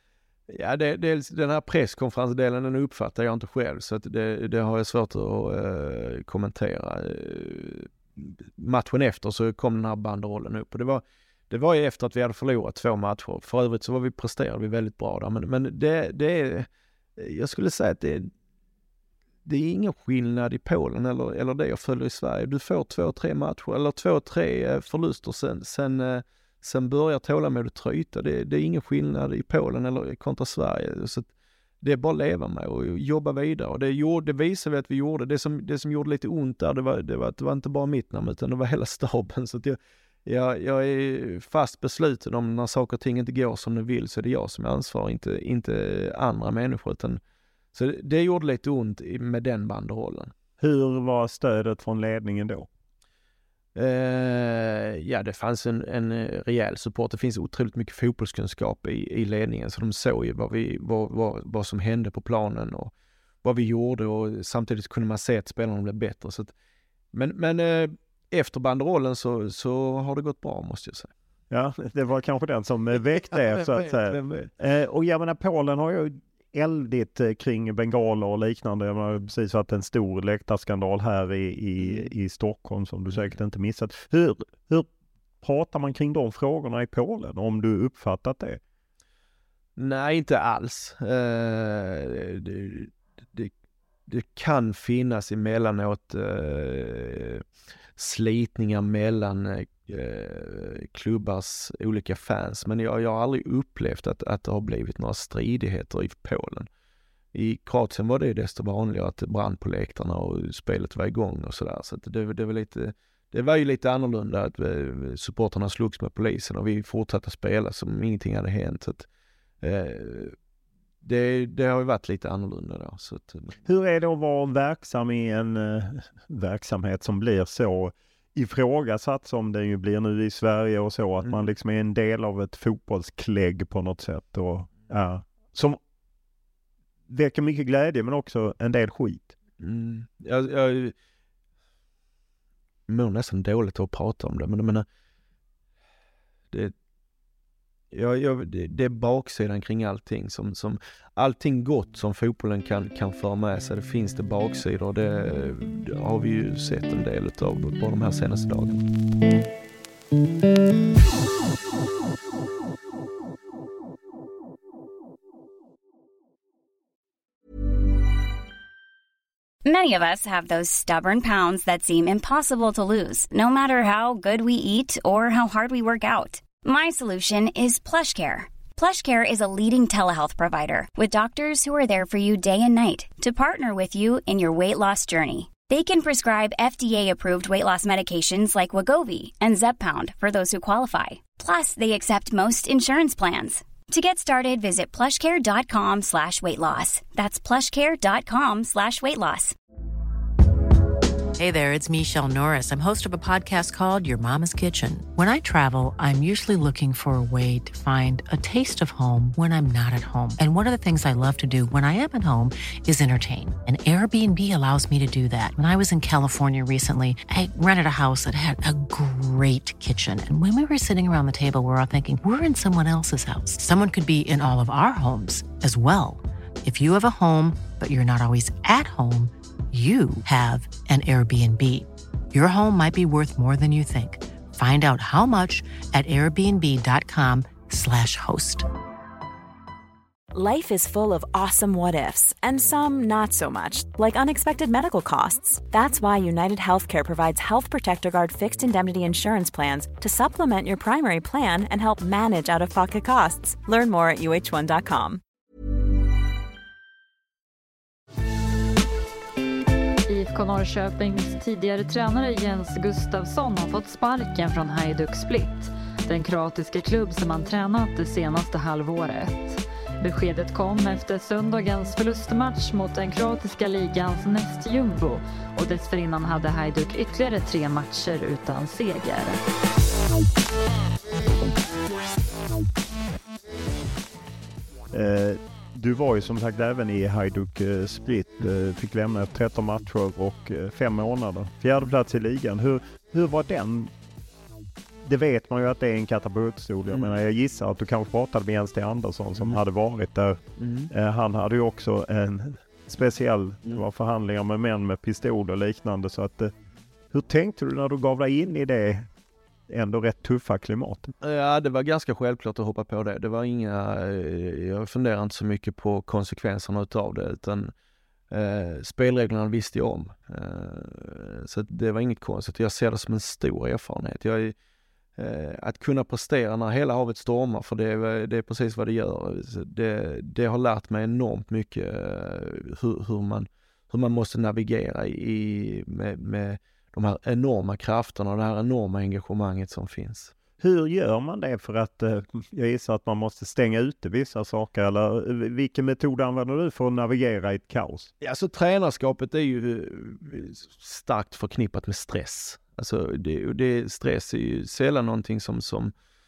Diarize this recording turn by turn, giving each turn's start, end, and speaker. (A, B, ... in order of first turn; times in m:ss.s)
0:00.5-0:18.3 A
0:19.4-0:31.3 A
0:31.8-0:47.2 A
0:47.7-0:50.3 A
0:50.6-0:52.7 B
0:53.7-1:02.9 A
1:03.4-1:06.5 A
1:07.1-1:11.1 A
1:11.5-1:24.9 B
1:13.3-1:14.4 A
1:25.4-1:28.6 B
1:29.8-1:33.5 A
1:34.1-1:37.4 A
1:38.0-1:46.7 A
1:47.3-1:59.1 A
1:59.6-2:00.3 A
2:01.0-2:03.6 A
2:03.6-2:15.8 B
2:17.1-2:19.3 B
2:19.6-2:20.9 A
2:22.9-2:24.8 A
2:27.9-2:38.8 A
2:49.6-3:19.5 C
3:21.4-3:58.6 D
4:00.3-4:15.2 E
4:20.1-4:39.4 F
4:44.9-4:53.9 B
4:55.0-5:06.5 B
5:00.6-5:00.9 A
5:07.1-5:09.1 B
5:09.7-5:11.1 B
5:11.2-5:17.7 A
5:18.3-5:24.5 A
5:25.2-5:40.3 A
5:40.6-5:48.1 B
5:48.2-5:55.9 A